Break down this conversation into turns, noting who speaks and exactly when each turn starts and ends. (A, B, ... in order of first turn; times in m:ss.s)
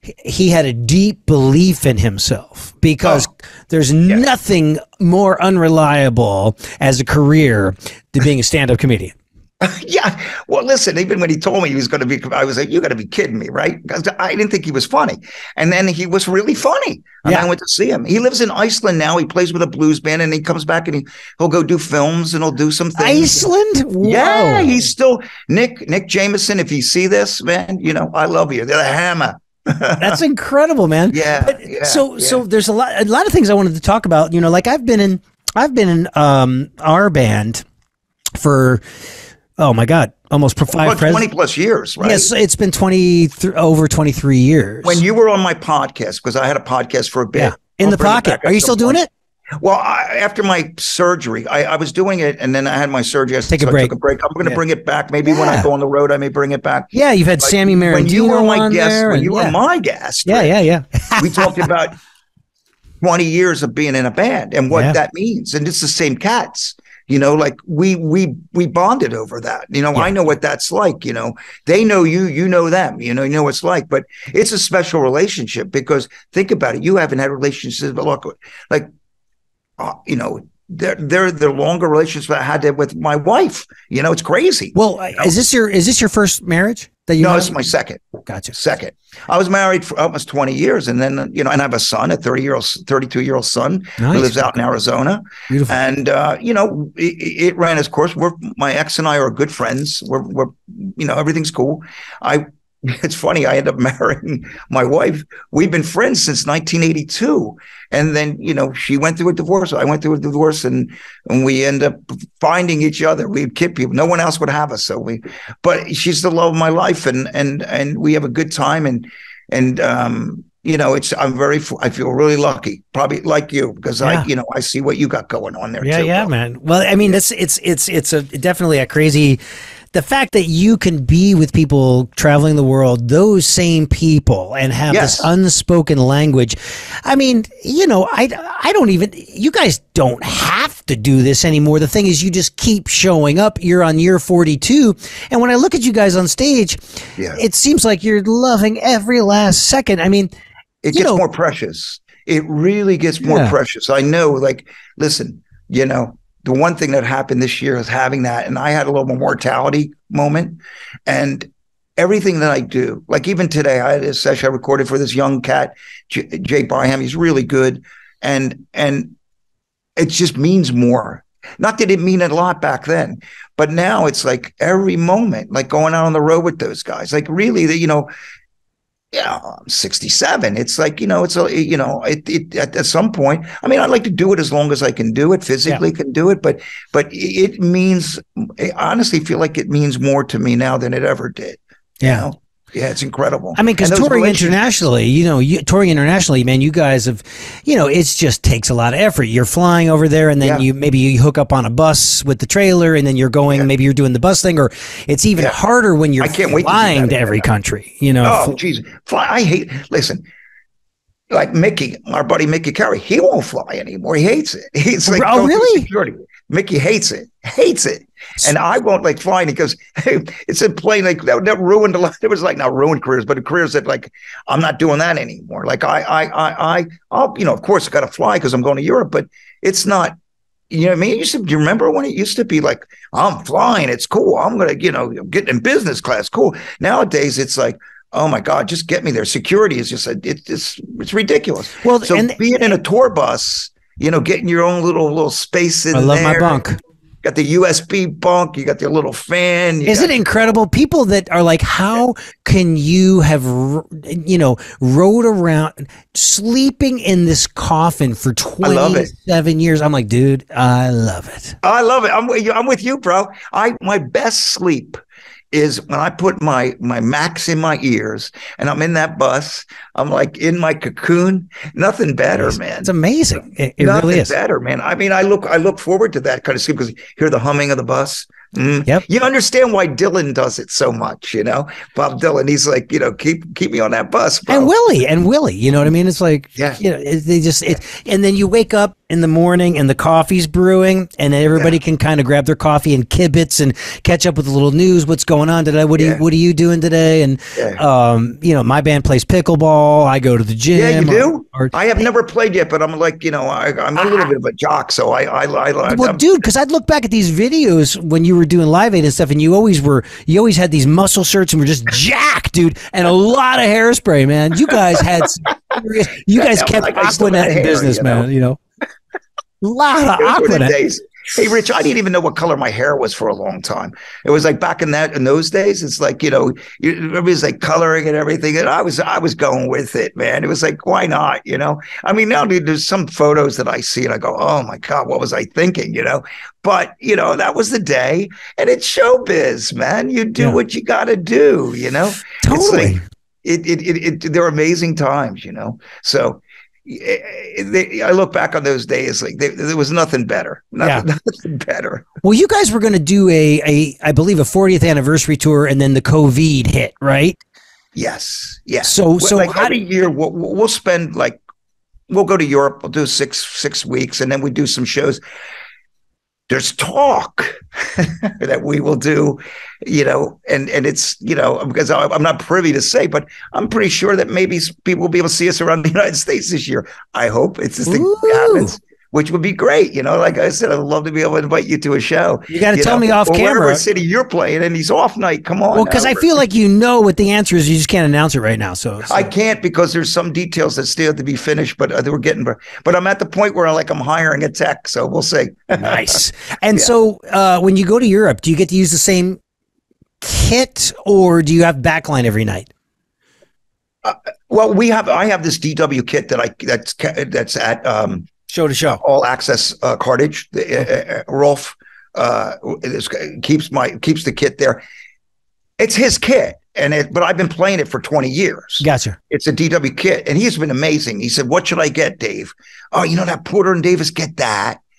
0:00.2-0:09.2 A
0:09.6-0:23.5 B
0:23.0-0:24.9 A
0:24.0-0:30.2 B
0:30.0-0:37.6 A
0:31.1-0:32.4 B
0:38.4-0:38.8 A
0:39.6-0:41.3 A
0:40.7-0:42.3 B
0:42.0-0:45.0 A
0:44.8-0:49.0 B
0:47.4-0:49.1 A
0:49.6-1:00.5 B
0:53.5-0:54.6 A
0:55.2-0:55.7 A
0:56.9-0:59.6 A
1:00.3-1:01.6 A
1:01.2-1:02.0 B
1:03.0-1:18.9 B
1:04.7-1:05.0 A
1:19.8-1:25.3 B
1:24.7-1:27.6 A
1:27.2-2:06.3 B
1:28.3-1:28.5 A
1:34.0-1:34.5 A
1:35.5-1:35.8 A
2:05.8-2:09.4 A
2:09.9-2:26.8 A
2:14.9-2:15.3 B
2:27.3-2:30.3 A
2:30.8-2:49.2 B
2:30.9-2:31.2 A
2:33.2-2:33.6 A
2:50.0-2:58.1 B
2:59.1-3:14.6 B
3:12.0-3:12.3 A
3:13.6-3:28.6 A
3:20.4-3:20.7 B
3:26.2-3:27.5 B
3:28.2-3:30.2 B
3:31.3-3:50.2 B
3:35.1-3:35.9 A
3:50.7-4:06.6 B
4:01.8-4:02.7 A
4:05.9-4:06.8 A
4:07.2-4:10.2 B
4:09.8-4:21.6 A
4:18.6-4:19.1 B
4:21.6-4:25.0 B
4:25.5-4:32.9 B
4:32.4-4:34.3 A
4:33.8-4:44.7 B
4:44.5-5:01.7 A
4:46.6-4:46.8 B
4:56.0-4:56.2 B
4:57.6-4:57.8 B
5:00.7-5:06.3 B
5:05.9-5:18.6 A
5:16.3-5:18.3 B
5:19.6-5:20.7 A
5:20.2-5:52.1 B
5:42.4-5:43.0 A
5:52.2-5:57.4 A
5:58.0-6:01.4 B
5:58.8-5:59.8 A
6:02.1-6:05.2 B
6:06.5-6:26.3 B
6:17.8-6:18.7 A
6:22.5-6:23.8 A
6:25.7-6:29.3 A
6:29.1-6:36.2 B
6:35.8-6:39.4 A
6:40.2-6:42.7 A
6:44.0-6:48.3 B
6:48.5-6:49.0 A
6:49.0-6:54.8 B
6:55.8-7:04.8 B
6:58.8-6:59.2 A